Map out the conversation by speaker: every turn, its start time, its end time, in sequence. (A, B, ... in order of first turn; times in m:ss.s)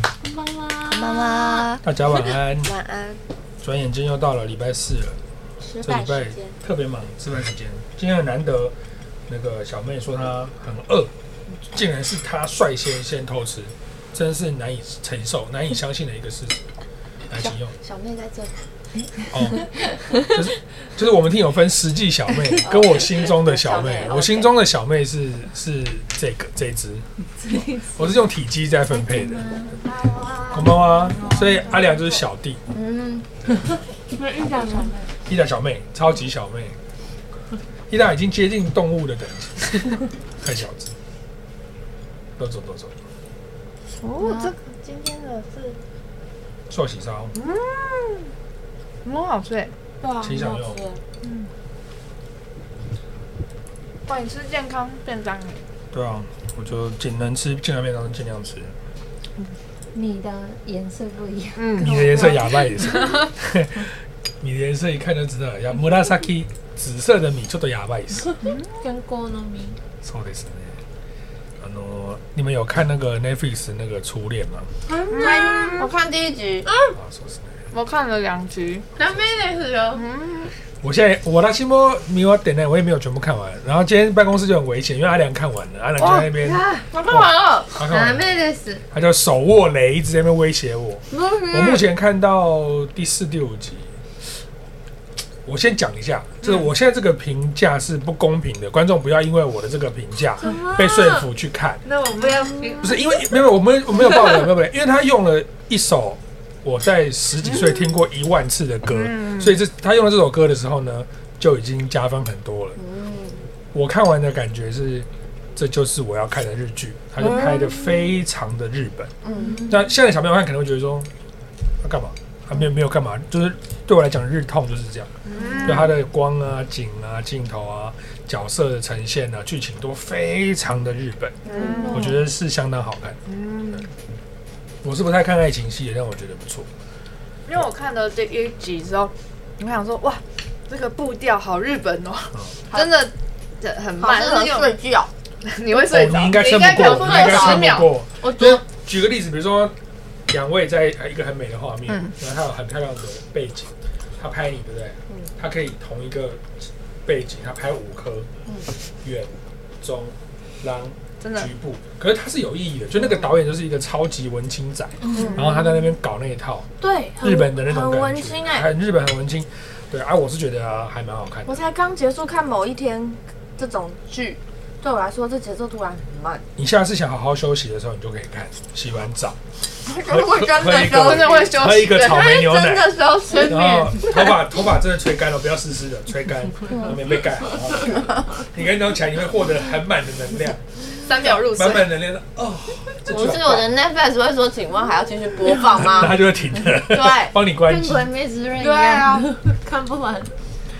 0:00.2-0:01.7 A
0:00.9-0:03.2 B
0:01.8-0:02.7 C
0:03.6-0:05.2 C
0:05.6-0:06.6 B
0:05.8-0:08.8 C
0:09.3-0:11.1 C
0:11.7-0:16.6 C
0:17.3-0:17.8 C
0:17.4-0:18.6 B
0:19.0-0:20.3 A
0:19.3-0:19.6 C
0:20.2-0:29.5 C
0:22.6-0:24.6 B
0:27.4-0:28.2 A
0:28.9-0:29.9 A
0:29.8-0:31.8 B
0:30.5-0:32.6 C
0:31.1-0:31.9 A
0:32.7-0:33.3 B
0:34.1-0:35.1 A
0:34.5-0:35.0 B
0:35.3-0:36.8 C
0:37.9-0:41.0 C
0:42.4-0:43.0 C
0:44.0-0:45.8 D
0:44.2-0:44.5 A
0:46.7-0:47.3 C
0:47.4-0:48.3 D
0:49.0-0:49.7 D
0:50.0-0:51.0 B
0:50.2-0:50.8 C
0:51.2-0:51.5 D
0:54.1-0:55.6 D
0:55.9-0:58.7 C
0:59.9-1:03.2 A
1:01.6-1:03.2 D
1:01.8-1:08.4 C
1:08.3-1:09.8 A
1:08.4-1:08.7 D
1:10.0-1:10.8 C
1:11.6-1:14.7 C
1:14.9-1:15.8 A
1:15.1-1:15.9 D
1:15.1-1:16.7 B
1:17.0-1:17.6 C
1:17.7-1:18.8 D
1:19.0-1:20.0 A
1:20.0-1:20.5 D
1:20.8-1:28.4 C
1:26.0-1:26.9 D
1:26.9-1:27.2 A
1:26.9-1:27.7 B
1:27.7-1:28.8 A
1:28.9-1:34.0 C
1:31.1-1:31.9 A
1:35.4-1:41.8 C
1:36.4-1:36.7 D
1:40.4-1:41.3 A
1:41.8-1:43.2 A
1:42.2-1:42.8 D
1:42.8-1:52.8 C
1:47.4-1:47.9 D
1:48.9-1:49.6 D
1:52.8-1:53.4 B
1:53.7-1:59.1 C
1:57.2-1:58.1 B
1:59.2-1:59.7 B
1:59.4-1:59.8 A
1:59.7-2:01.1 C
2:01.8-2:05.1 C
2:05.3-2:05.9 D
2:05.6-2:13.2 C
2:11.4-2:12.1 B
2:11.4-2:12.1 D
2:11.5-2:12.1 A
2:13.3-2:13.9 D
2:14.8-2:16.7 C
2:17.5-2:24.8 D
2:22.7-2:23.0 B
2:24.0-2:25.1 B
2:25.4-2:27.9 D
2:25.8-2:29.8 C
2:26.8-2:27.8 B
2:30.3-2:38.3 C
2:31.9-2:32.1 D
2:39.0-2:46.7 C
2:41.2-2:41.5 D
2:45.1-2:45.6 D
2:45.1-2:45.4 A
2:45.1-2:45.5 B
2:46.8-2:48.7 B
2:47.2-2:51.6 C
2:51.5-2:56.4 B
2:56.6-3:13.7 C
2:59.8-3:04.1 B
3:00.7-3:02.3 D
3:03.3-3:04.2 A
3:06.6-3:07.2 B
3:07.8-3:08.2 B
3:11.0-3:11.9 D
3:13.1-3:17.4 B
3:15.7-3:18.1 C
3:17.7-3:20.4 A
3:18.6-3:19.3 B